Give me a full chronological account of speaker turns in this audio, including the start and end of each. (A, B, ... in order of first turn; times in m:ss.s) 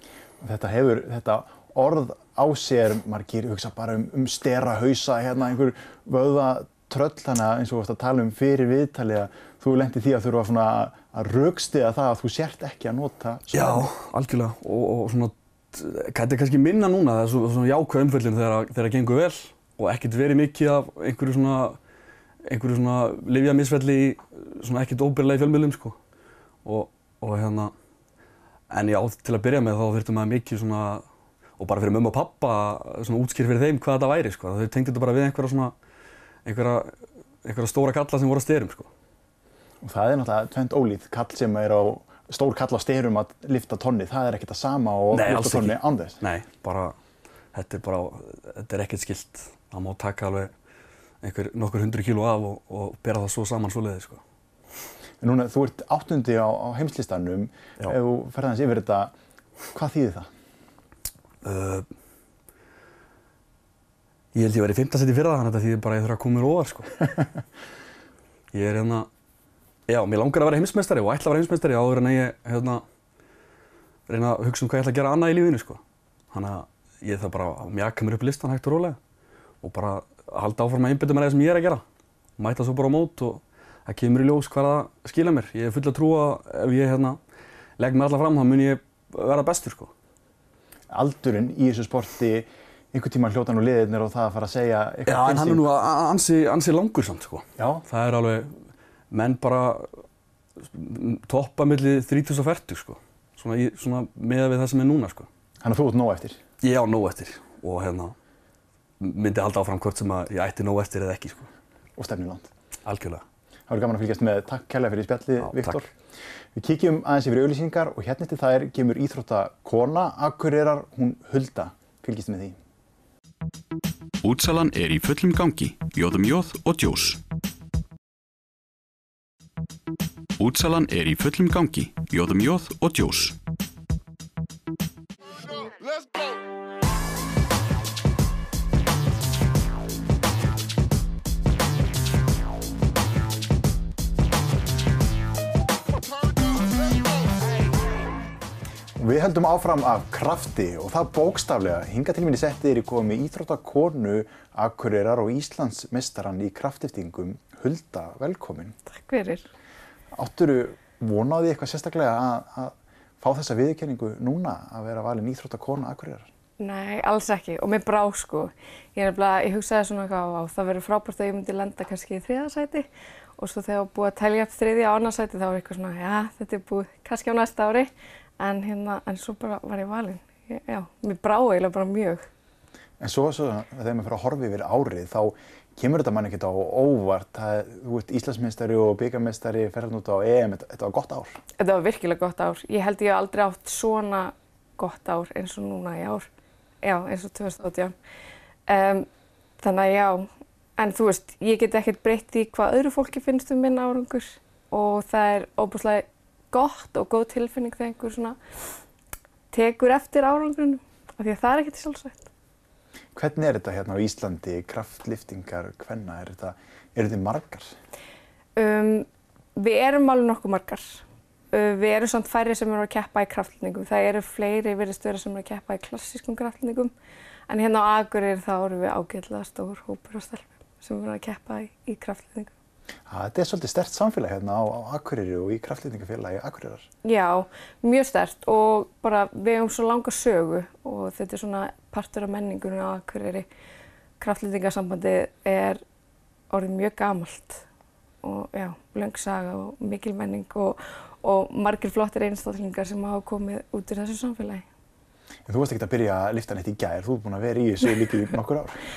0:00.4-0:13.9 A
0:13.5-0:21.8 B
0:22.4-0:26.0 B
0:26.6-0:27.7 B
0:28.7-0:31.0 B
0:31.6-0:35.7 B
0:36.4-0:38.9 B
0:39.8-0:46.2 A
0:45.1-0:46.9 B
0:47.5-0:50.5 B
0:51.2-0:54.2 B
0:55.2-0:59.1 A
0:59.7-1:00.3 A
1:01.4-1:01.9 B
1:04.3-1:07.1 B
1:08.5-1:09.1 B
1:09.9-1:12.8 B
1:14.1-1:15.8 B
1:16.3-1:19.0 B
1:19.6-1:21.8 B
1:22.4-1:27.2 B
1:27.8-1:29.9 B
1:30.9-1:35.6 A
1:35.1-1:38.6 B
1:37.6-1:37.8 A
1:39.1-1:40.0 B
1:40.6-1:45.3 B
1:45.6-1:46.4 A
1:46.6-1:48.2 B
1:49.0-1:51.5 B
1:52.0-1:52.5 A
1:52.8-1:53.2 B
1:53.7-1:55.9 A
1:55.4-1:55.8 B
1:56.5-2:02.6 A
2:04.2-2:07.2 C
2:10.4-2:13.4 C
2:29.0-2:38.8 A
2:38.9-2:39.5 D
2:40.1-2:46.3 A
2:46.6-2:52.9 D
2:53.4-3:02.3 D
3:03.0-3:11.4 A
3:11.6-3:16.3 D
3:16.8-3:18.0 D
3:18.7-3:19.1 D
3:19.6-3:28.4 D
3:29.5-3:32.3 D
3:33.2-3:37.8 A
3:38.6-3:46.9 D
3:47.5-3:52.5 D
3:53.1-3:56.9 A
3:57.0-4:03.5 D
4:04.2-4:05.8 D
4:06.5-4:07.6 D
4:08.2-4:14.6 D
4:15.5-4:18.8 A